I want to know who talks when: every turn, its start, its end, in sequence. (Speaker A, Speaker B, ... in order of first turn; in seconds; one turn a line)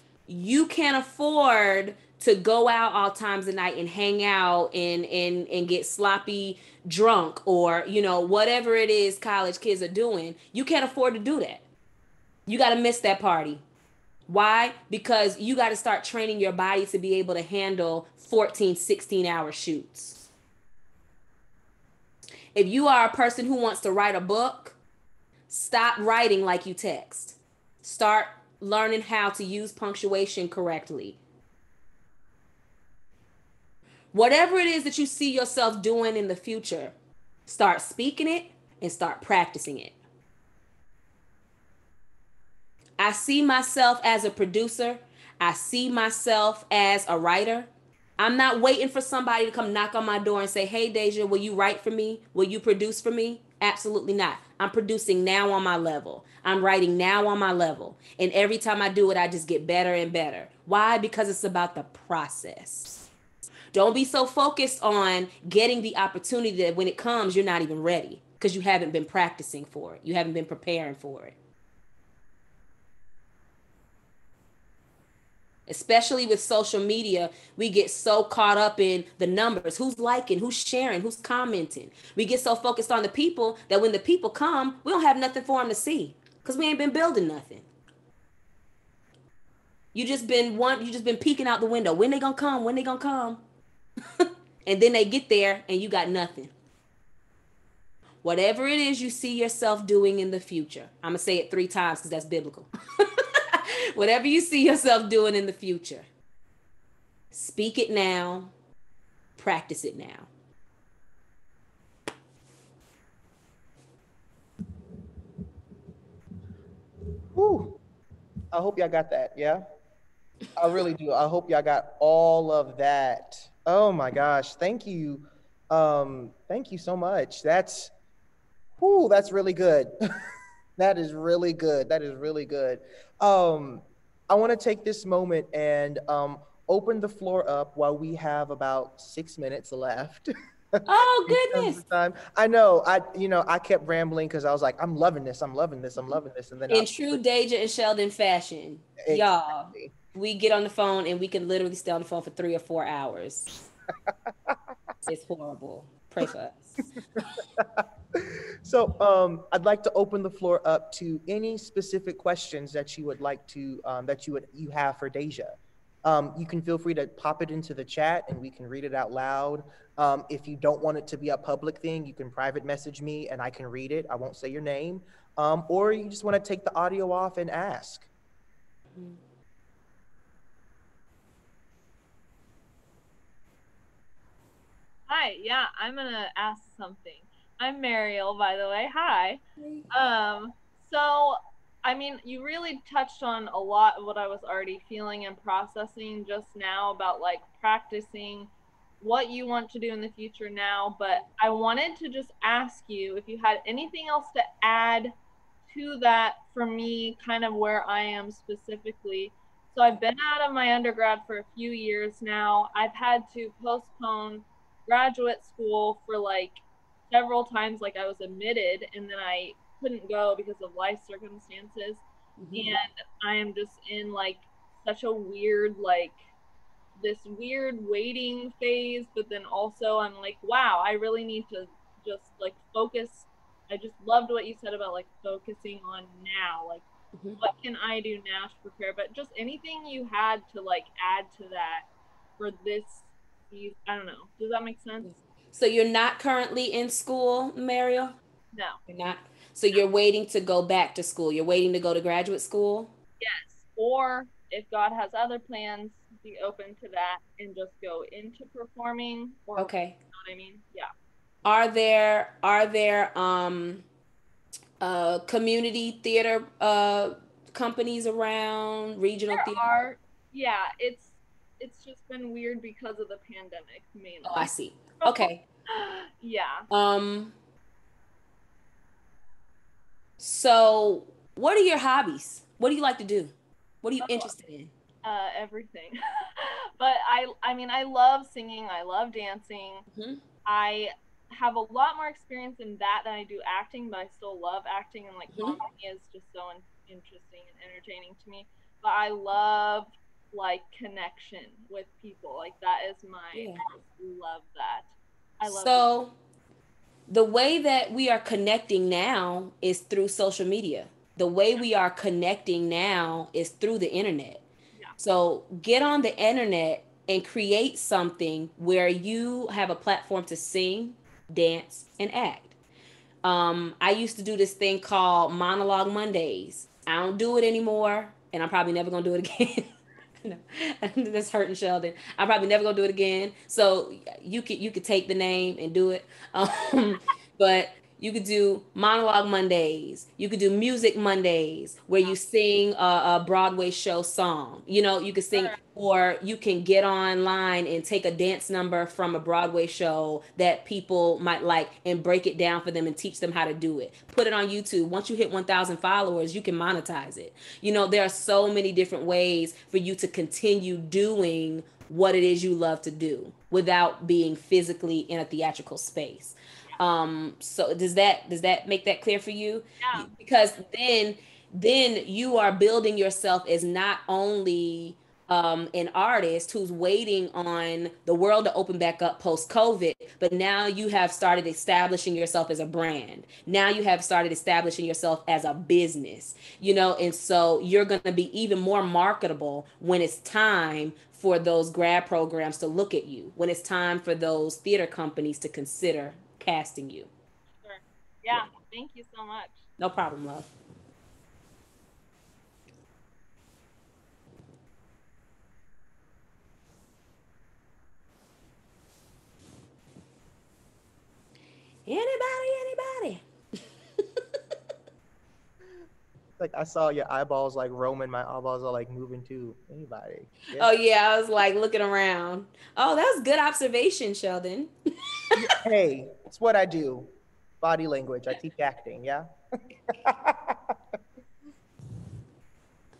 Speaker A: 0.3-11.6
Speaker A: 12.5-13.6
Speaker A: 14.3-20.3
Speaker A: 22.5-24.8
Speaker A: 25.5-31.2
Speaker A: 34.1-36.9
Speaker A: 37.5-40.0
Speaker A: 43.0-63.1
Speaker A: 63.7-71.3
Speaker A: 75.7-87.7
Speaker A: 89.9-93.4
Speaker A: 94.2-96.5
Speaker A: 98.2-106.1
Speaker A: 107.3-108.5
Speaker A: 109.4-110.3
Speaker B: 117.3-117.8
Speaker B: 118.5-119.6
Speaker B: 120.5-127.9
Speaker B: 128.8-129.9
Speaker B: 130.8-140.3
Speaker B: 140.8-147.2
Speaker A: 140.8-141.8
Speaker A: 146.7-153.5
Speaker B: 149.0-149.9
Speaker B: 154.1-154.6
Speaker A: 155.0-156.9
Speaker B: 157.2-178.1
Speaker C: 185.1-205.1
Speaker A: 189.6-189.8
Speaker C: 205.7-222.0
Speaker A: 222.4-222.8
Speaker C: 222.5-226.2
Speaker C: 226.9-236.8
Speaker A: 237.1-237.4
Speaker C: 237.4-241.9
Speaker C: 242.4-245.1
Speaker A: 245.0-248.1
Speaker C: 248.5-248.8
Speaker A: 248.9-252.9
Speaker C: 253.2-260.9
Speaker A: 259.6-259.9
Speaker A: 261.4-263.8
Speaker A: 264.8-269.6
Speaker C: 269.3-276.6
Speaker A: 274.2-275.4
Speaker A: 276.7-277.3
Speaker A: 280.2-284.7
Speaker C: 284.0-284.3
Speaker C: 285.0-289.9
Speaker A: 289.9-290.2
Speaker C: 290.4-304.9
Speaker A: 295.3-295.6
Speaker A: 303.3-303.6
Speaker C: 305.4-305.9
Speaker A: 305.4-306.1
Speaker A: 307.1-314.4
Speaker A: 315.0-322.5
Speaker A: 323.2-329.7
Speaker A: 330.2-397.1
Speaker C: 345.3-345.6
Speaker C: 369.8-370.1
Speaker C: 397.6-399.6
Speaker A: 399.8-400.5
Speaker A: 411.9-413.2
Speaker B: 416.4-420.7
Speaker A: 420.6-424.7
Speaker B: 425.4-427.1
Speaker B: 427.6-429.2
Speaker B: 429.9-430.7